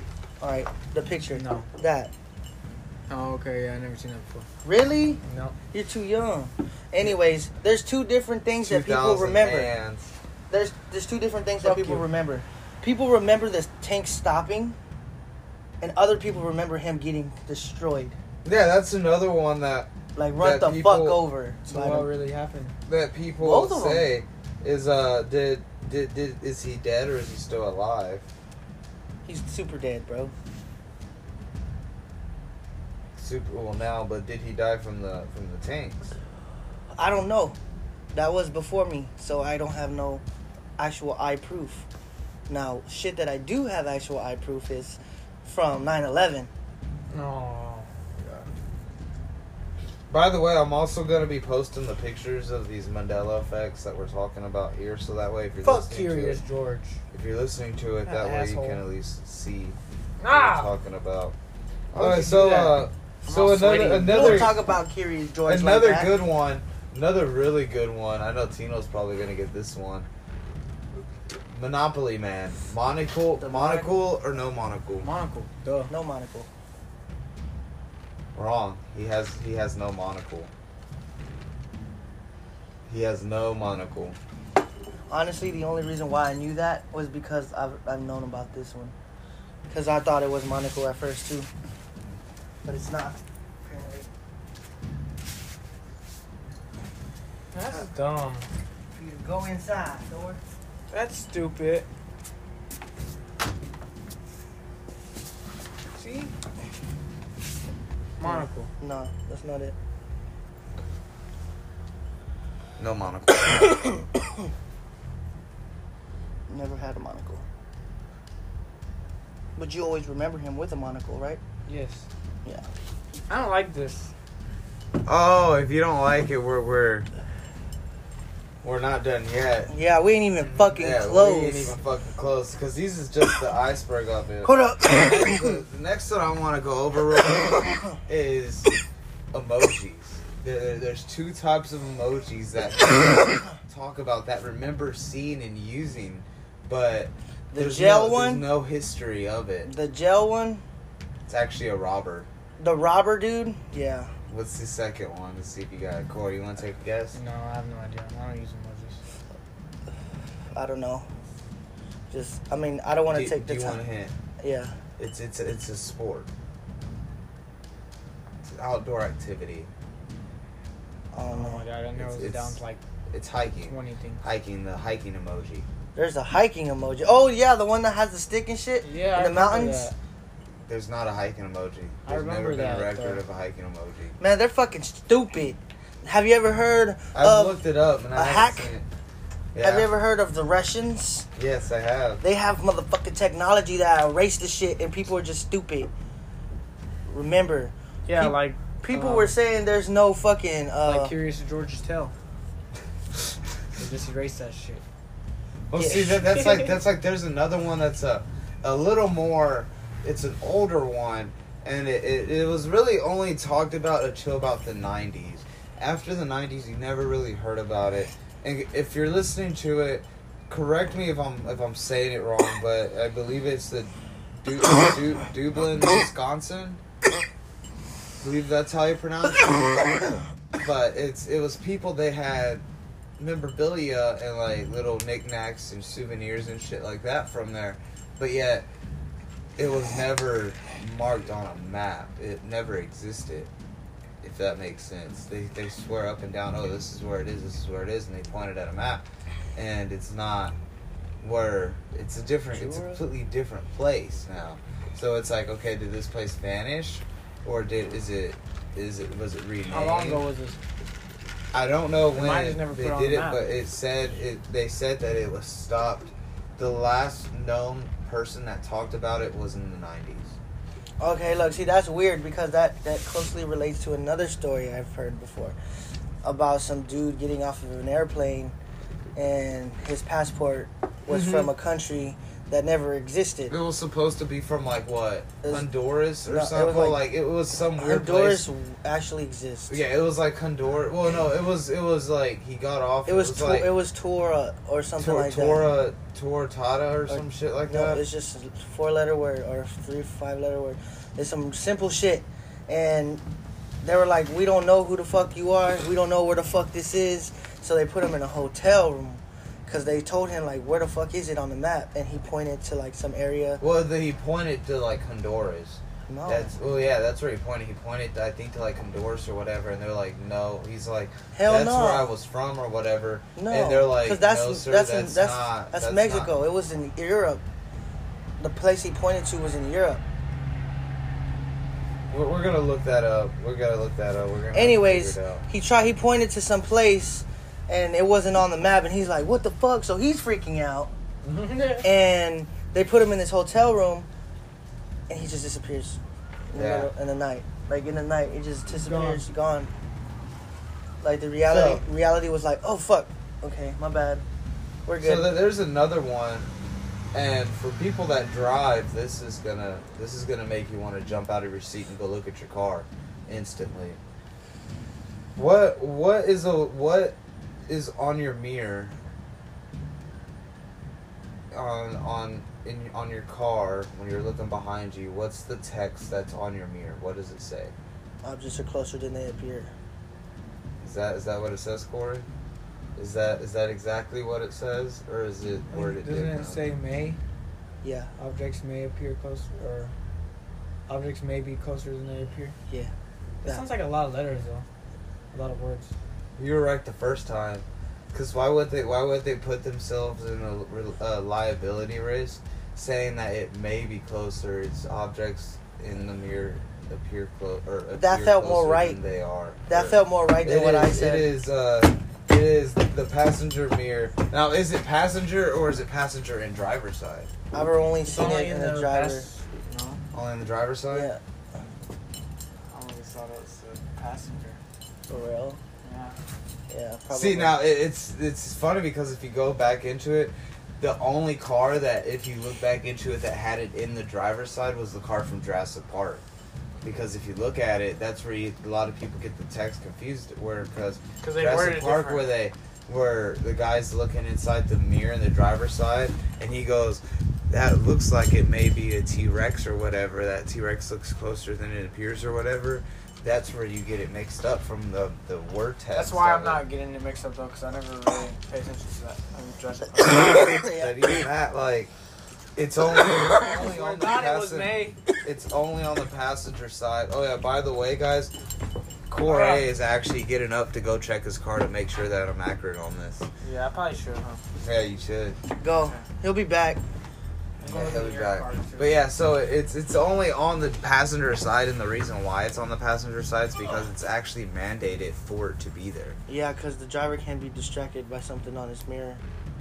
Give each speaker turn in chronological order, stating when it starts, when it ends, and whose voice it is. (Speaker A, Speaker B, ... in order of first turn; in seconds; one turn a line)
Speaker A: 0.4-2.1
Speaker B: 1.3-1.7
Speaker B: 3.1-4.5
Speaker A: 4.6-5.2
Speaker B: 5.2-5.5
Speaker A: 5.7-9.7
Speaker C: 8.6-10.1
Speaker A: 10.5-14.8
Speaker B: 11.6-12.1
Speaker A: 15.8-18.2
Speaker C: 18.4-21.2
Speaker A: 20.1-22.1
Speaker B: 21.6-22.8
Speaker C: 22.9-28.2
Speaker A: 23.4-24.1
Speaker A: 29.2-30.3
Speaker C: 33.1-36.1
Speaker A: 37.0-37.6
Speaker A: 38.1-40.2
Speaker A: 40.8-41.9
Speaker A: 42.5-46.5
Speaker B: 47.1-47.9
Speaker C: 50.1-56.4
Speaker B: 55.6-57.0
Speaker C: 57.1-59.8
Speaker B: 58.0-58.8
Speaker B: 60.2-60.7
Speaker C: 60.3-61.3
Speaker C: 61.9-64.6
Speaker B: 61.9-64.6
Speaker A: 64.0-66.1
Speaker C: 65.4-70.1
Speaker C: 71.5-75.1
Speaker A: 73.4-74.0
Speaker B: 75.0-75.9
Speaker A: 75.9-76.5
Speaker C: 78.3-80.5
Speaker C: 82.9-84.2
Speaker A: 85.1-88.9
Speaker A: 89.7-91.5
Speaker A: 92.6-94.1
Speaker B: 97.5-98.5
Speaker A: 98.9-100.4
Speaker B: 100.9-101.9
Speaker B: 105.9-106.3
Speaker B: 108.2-108.7
Speaker A: 108.2-109.7
Speaker C: 112.8-113.8
Speaker A: 113.7-114.0
Speaker A: 116.5-117.4
Speaker A: 119.5-121.4
Speaker B: 121.7-122.1
Speaker B: 123.3-124.1
Speaker C: 125.0-127.1
Speaker C: 128.6-129.7
Speaker A: 129.7-131.7
Speaker C: 130.4-138.7
Speaker A: 134.4-135.6
Speaker C: 139.3-149.7
Speaker A: 147.5-148.4
Speaker A: 149.6-150.6
Speaker C: 151.3-152.3
Speaker A: 152.6-154.1
Speaker C: 154.3-157.2
Speaker B: 157.1-159.0
Speaker A: 160.5-161.1
Speaker A: 162.1-163.8
Speaker C: 163.1-164.1
Speaker A: 164.4-164.8
Speaker C: 165.0-166.3
Speaker C: 168.4-169.7
Speaker A: 171.1-171.7
Speaker B: 171.3-172.8
Speaker C: 172.0-172.6
Speaker C: 173.1-175.7
Speaker B: 173.6-174.2
Speaker A: 175.9-179.9
Speaker B: 178.8-179.9
Speaker C: 180.7-184.2
Speaker B: 182.1-183.2
Speaker A: 184.2-187.6
Speaker C: 187.1-188.8
Speaker A: 188.1-188.7
Speaker C: 189.5-189.9
Speaker A: 189.6-191.3
Speaker C: 191.3-192.2
Speaker A: 192.2-195.9
Speaker A: 197.1-201.1
Speaker B: 198.1-199.3
Speaker B: 200.8-202.1
Speaker B: 203.8-204.8
Speaker C: 205.7-223.9
Speaker A: 205.8-206.3
Speaker C: 224.4-226.8
Speaker C: 228.2-232.6
Speaker C: 233.2-238.7
Speaker C: 239.6-243.5
Speaker C: 244.2-249.0
Speaker C: 249.5-250.6
Speaker C: 251.2-260.2
Speaker A: 252.5-253.0
Speaker B: 259.7-260.6
Speaker C: 261.5-270.4
Speaker B: 262.1-263.4
Speaker A: 271.0-275.6
Speaker A: 276.2-278.5
Speaker A: 279.1-283.5
Speaker C: 281.1-281.5
Speaker C: 283.5-288.5
Speaker A: 286.2-287.0
Speaker A: 287.7-289.8
Speaker C: 289.7-293.7
Speaker A: 293.1-295.7
Speaker C: 295.0-298.0
Speaker A: 297.1-303.2
Speaker A: 303.8-313.6
Speaker C: 313.6-326.3
Speaker A: 316.1-316.5
Speaker A: 321.3-322.1
Speaker A: 323.4-327.4
Speaker A: 328.4-330.0
Speaker C: 332.1-335.4
Speaker A: 334.5-340.9
Speaker B: 341.2-341.9
Speaker A: 341.8-344.1
Speaker A: 345.1-349.7
Speaker C: 346.5-346.9
Speaker B: 348.7-349.2
Speaker A: 351.0-354.2
Speaker C: 351.4-351.8
Speaker A: 354.9-355.3
Speaker C: 355.0-356.5
Speaker C: 357.1-364.0
Speaker C: 365.4-368.9
Speaker C: 371.5-377.7
Speaker A: 378.2-379.7
Speaker C: 380.8-382.3
Speaker C: 382.9-386.6
Speaker B: 385.7-387.2
Speaker A: 387.8-388.1
Speaker B: 388.2-389.9
Speaker B: 390.9-392.6
Speaker B: 393.4-394.6
Speaker B: 395.3-395.9
Speaker C: 396.4-417.3
Speaker A: 407.9-409.0
Speaker A: 409.7-411.3
Speaker A: 417.5-419.3
Speaker B: 418.1-420.0
Speaker C: 420.1-421.1
Speaker A: 420.9-421.2
Speaker B: 422.7-424.6
Speaker A: 425.1-425.6
Speaker B: 425.8-426.1
Speaker A: 426.7-427.6
Speaker C: 427.1-436.2
Speaker C: 436.8-456.6
Speaker B: 441.2-442.3
Speaker B: 455.9-460.6
Speaker A: 460.4-461.1
Speaker C: 460.7-461.9
Speaker C: 462.6-468.3
Speaker B: 463.4-465.0
Speaker C: 469.1-473.3
Speaker B: 469.2-469.7
Speaker B: 473.4-474.4
Speaker C: 474.6-475.4
Speaker A: 475.6-476.8
Speaker B: 477.6-479.0
Speaker C: 477.6-486.2
Speaker A: 486.3-489.2